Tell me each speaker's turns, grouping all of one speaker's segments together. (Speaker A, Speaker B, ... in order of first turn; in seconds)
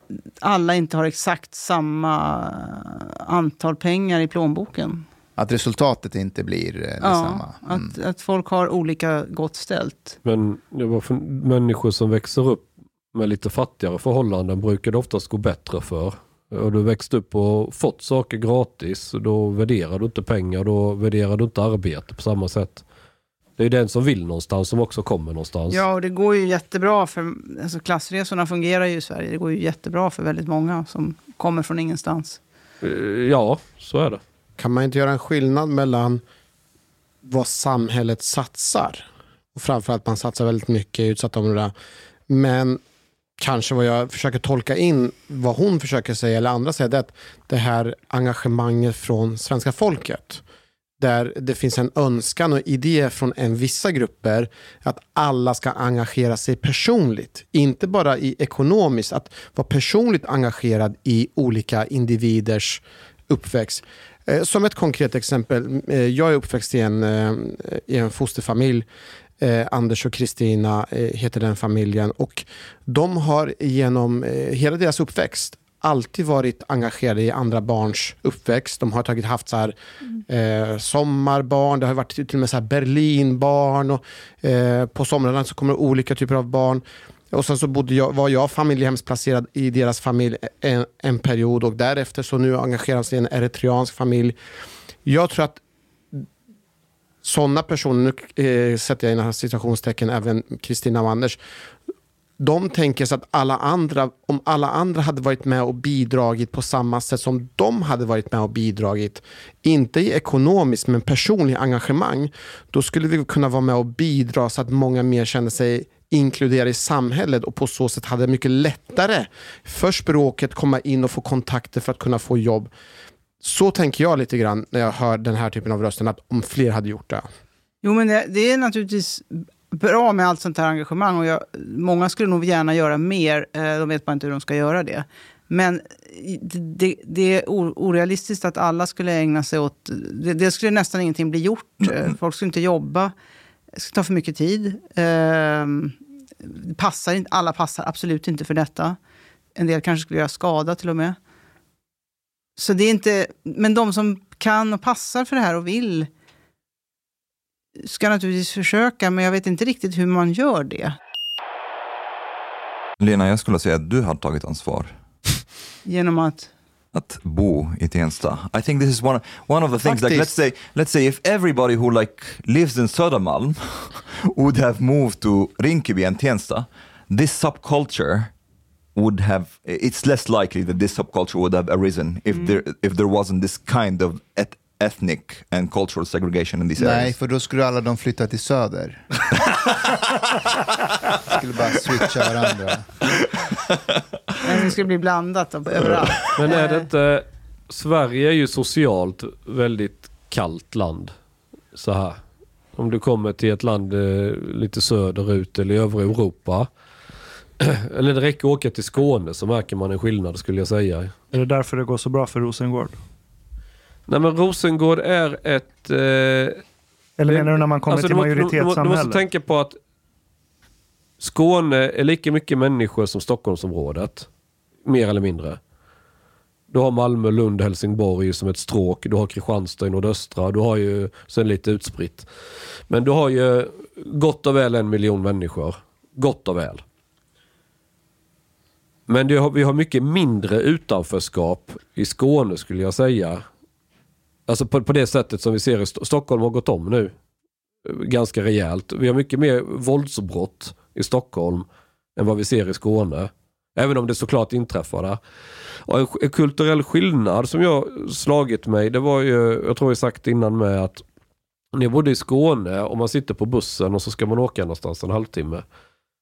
Speaker A: 0.4-5.0, 7.0-10.2, 25.7-32.4, 127.8-143.1, 143.7-149.0, 149.6-151.2, 152.6-156.1, 157.8-161.0, 165.8-166.5, 169.8-170.3, 182.3-182.6, 194.4-196.9
Speaker B: 5.4-7.9, 186.8-189.0, 191.2-192.9
Speaker C: 10.2-22.8, 23.6-25.8, 32.8-34.2, 196.3-201.1, 201.7-202.2, 202.8-206.7, 207.6-211.1, 214.1-216.6, 217.3-219.8, 221.2-224.3, 224.8-225.6, 226.7-232.3, 232.9-236.8, 239.1-243.4, 244.5-247.1, 247.8-255.2, 255.8-261.0, 261.7-265.6
Speaker D: 34.6-36.2, 37.2-41.7, 42.3-42.8, 43.4-50.4, 51.0-68.8, 69.4-79.8, 80.3-94.3, 95.0-95.6, 97.2-101.4, 102.4-122.7, 123.4-127.3
Speaker E: 141.8-142.1, 163.0-165.0, 166.9-178.3, 178.9-187.1
Speaker F: 211.3-213.0, 217.2-219.2